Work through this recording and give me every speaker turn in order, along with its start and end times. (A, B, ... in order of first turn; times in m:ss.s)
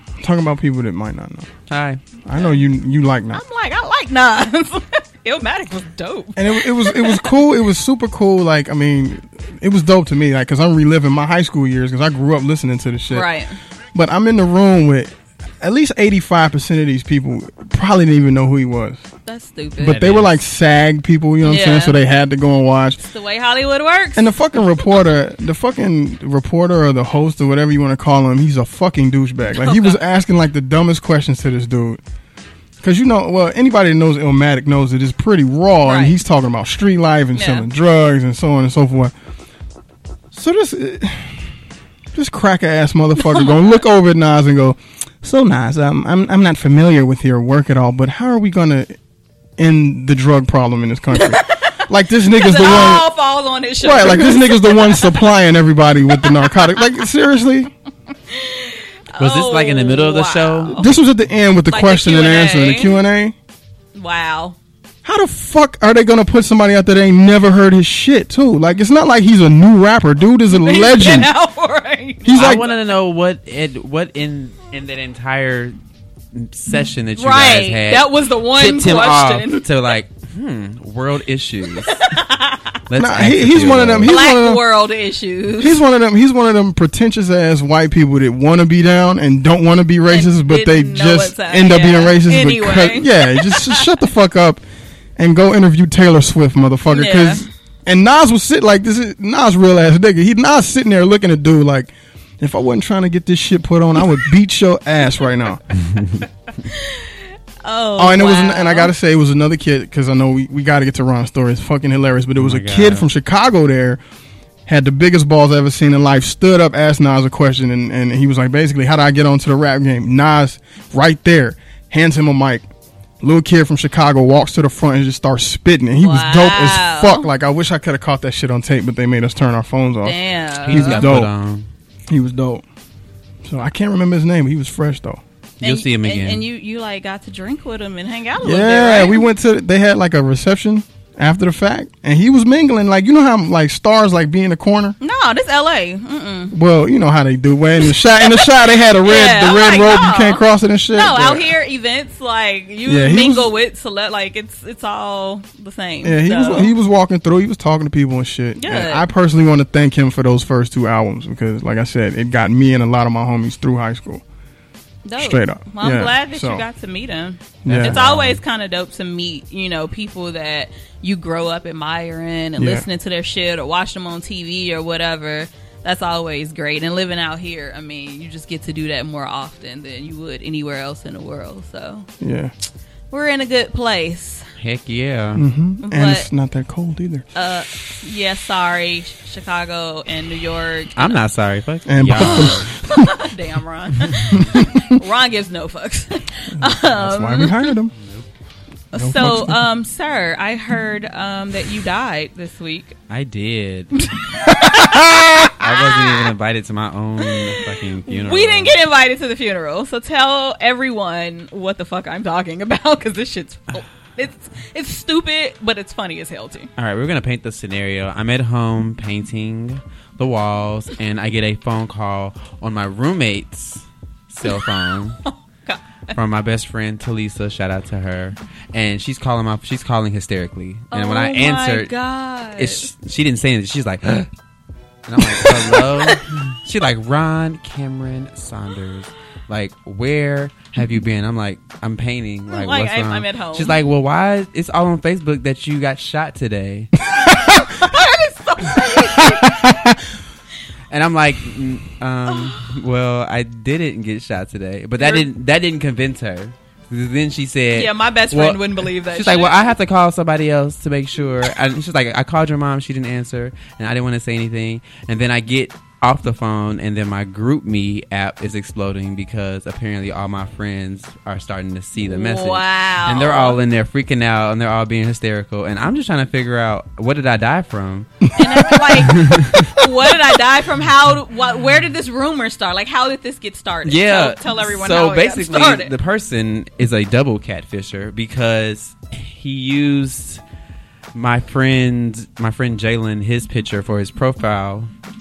0:00.2-0:01.5 A
0:01.7-0:02.0 B
0:02.3-0:03.4 A
0:02.3-0:02.6 C
0:03.3-0:07.3 C
0:06.4-0:13.3 A
0:13.1-0:13.6 C
0:14.0-0:19.0 A
0:19.3-0:20.0 C
0:19.8-0:23.0 A
0:19.8-0:20.4 B
0:21.4-0:22.0 C
0:23.0-0:24.4 C
0:24.2-0:32.0 A
0:29.6-0:30.0 C
0:32.8-0:39.1 A
0:35.8-0:36.2 C
0:37.4-0:37.7 C
0:40.3-0:41.4 A
0:42.1-0:49.0 A
0:49.6-0:53.1 A
0:51.1-0:55.2 C
0:53.8-0:57.7 A
0:56.2-0:56.6 C
0:58.3-1:01.0 C
0:59.2-1:00.8 B
1:00.7-1:03.4 A
1:01.7-1:03.0 C
1:04.0-1:04.6 C
1:05.0-1:11.3 A
1:10.5-1:12.8 C
1:12.2-1:12.7 A
1:12.4-1:15.8 B
1:16.3-1:22.0 B
1:17.2-1:19.7 C
1:21.8-1:22.8 C
1:22.9-1:24.2 B
1:23.0-1:24.6 A
1:24.0-1:25.8 C
1:25.6-1:34.6 A
1:30.1-1:33.8 C
1:35.2-1:45.7 A
1:36.9-1:37.5 C
1:46.6-1:48.9 C
1:48.0-1:54.0 A
1:52.4-1:53.1 B
1:54.7-2:02.7 A
2:03.2-2:11.3 A
2:06.0-2:07.3 C
2:10.0-2:11.1 C
2:10.7-2:11.7 B
2:12.1-2:12.6 A
2:13.4-2:15.2 A
2:15.6-2:19.3 C
2:15.6-2:16.4 B
2:18.4-2:25.0 A
2:25.0-2:26.6 C
2:26.5-2:31.5 A
2:27.9-2:36.7 C
2:32.9-2:33.5 A
2:36.0-2:44.2 A
2:38.6-2:39.1 C
2:45.0-3:02.1 C
2:45.2-2:46.6 A
2:47.6-2:48.0 A
2:47.7-2:48.4 B
2:52.6-2:52.9 A
3:02.2-3:02.5 A
3:03.1-3:04.5 C
3:04.6-3:05.4 B
3:05.4-3:07.3 A
3:05.8-3:06.3 C
3:07.4-3:11.2 C
3:11.0-3:12.7 B
3:11.9-3:13.1 A
3:12.2-3:17.7 C
3:14.3-3:15.0 A
3:16.5-3:17.9 A
3:18.0-3:18.3 B
3:18.9-3:23.0 C
3:19.0-3:19.6 A
3:23.1-3:23.9 B
3:24.0-3:26.3 C
3:24.8-3:25.2 A
3:25.5-3:28.8 B
3:27.2-3:36.7 C
3:36.8-3:45.2 B
3:44.4-3:46.1 C
3:46.1-3:51.9 B
3:50.9-3:52.9 C
3:52.6-3:54.3 B
3:55.1-4:06.9 B
3:55.4-3:56.2 C
4:02.5-4:03.8 C
4:07.3-4:09.8 C
4:07.3-4:07.6 A
4:08.9-4:10.0 A
4:10.9-4:39.7 B
4:12.3-4:12.6 C
4:15.0-4:15.3 C
4:17.7-4:19.7 C
4:32.1-4:33.6 C
4:38.4-4:45.9 C
4:43.8-4:50.4 B
4:51.1-4:54.9 B